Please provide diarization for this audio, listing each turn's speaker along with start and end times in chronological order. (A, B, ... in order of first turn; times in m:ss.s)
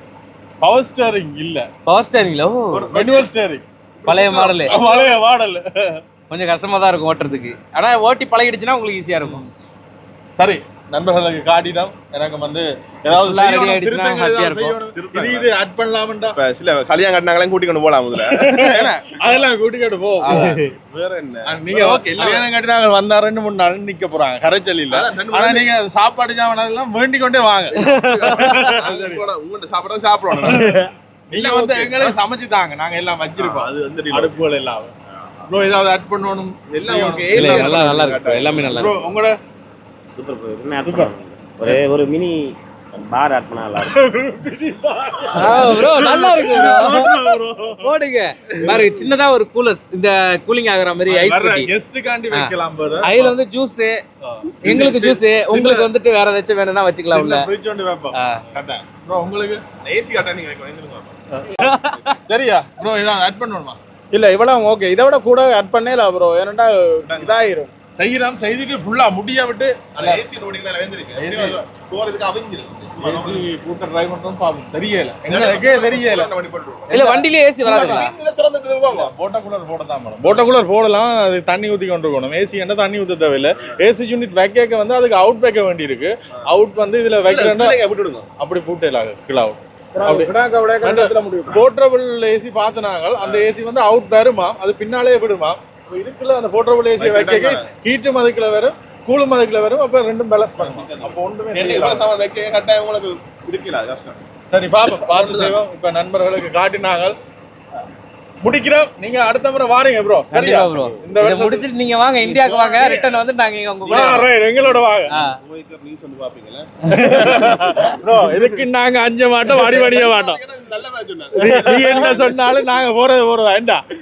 0:00.6-0:01.7 A
0:01.9-0:02.9 B
0:02.7-0:03.3 C
0:02.9-0:03.6 A
0:04.0-0:05.2 C
0:04.1-0:04.8 B
0:04.6-0:06.0 A
0:06.3-0:09.4 B
0:09.2-0:09.5 A
0:10.4-0:16.4 A
0:13.2-0:14.8 B
0:15.0-0:15.5 C
0:16.4-0:19.3 C
0:18.4-0:20.6 A
0:20.2-0:22.5 C
0:20.3-0:20.7 B
0:21.5-0:29.2 A
0:24.9-0:25.6 C
0:27.8-0:28.8 B
0:27.8-0:30.6 C
0:30.4-0:30.9 B
0:30.4-0:34.9 A
0:31.4-0:32.2 C
0:33.4-0:34.3 C
0:35.5-0:37.9 A
0:36.8-0:38.7 C
0:37.3-0:39.0 B
0:38.7-0:39.4 A
0:40.1-0:44.0 D
0:40.8-0:41.1 A
0:43.9-0:47.9 A
0:45.4-0:51.7 B
0:48.6-0:48.9 A
0:51.1-0:53.3 A
0:52.3-0:54.0 B
0:54.2-0:55.9 A
0:54.6-0:57.5 B
0:57.1-0:58.2 A
0:58.2-0:58.4 B
0:58.9-0:59.6 A
0:59.8-1:01.1 C
1:01.3-1:01.7 A
1:01.6-1:02.2 B
1:02.2-1:03.8 A
1:04.1-1:07.7 E
1:08.0-1:10.2 A
1:10.0-1:13.5 C
1:11.2-1:11.6 A
1:13.0-1:16.3 A
1:15.3-1:17.0 C
1:16.9-1:18.1 B
1:16.9-1:17.2 A
1:17.6-1:19.1 C
1:18.9-1:27.8 A
1:27.2-1:28.3 C
1:28.4-1:42.1 A
1:30.0-1:31.6 E
1:33.2-1:33.5 C
1:37.0-1:37.7 C
1:40.6-1:44.2 C
1:44.5-1:47.2 A
1:45.1-1:45.5 C
1:48.4-1:51.7 A
1:50.3-1:54.3 B
1:52.2-1:53.2 A
1:53.8-1:54.3 C
1:53.9-1:55.1 A
1:55.2-1:56.6 C
1:56.9-1:57.6 B
1:57.0-2:00.4 A
1:59.6-2:02.3 C
2:01.4-2:03.8 A
2:01.5-2:01.9 D
2:01.8-2:02.1 B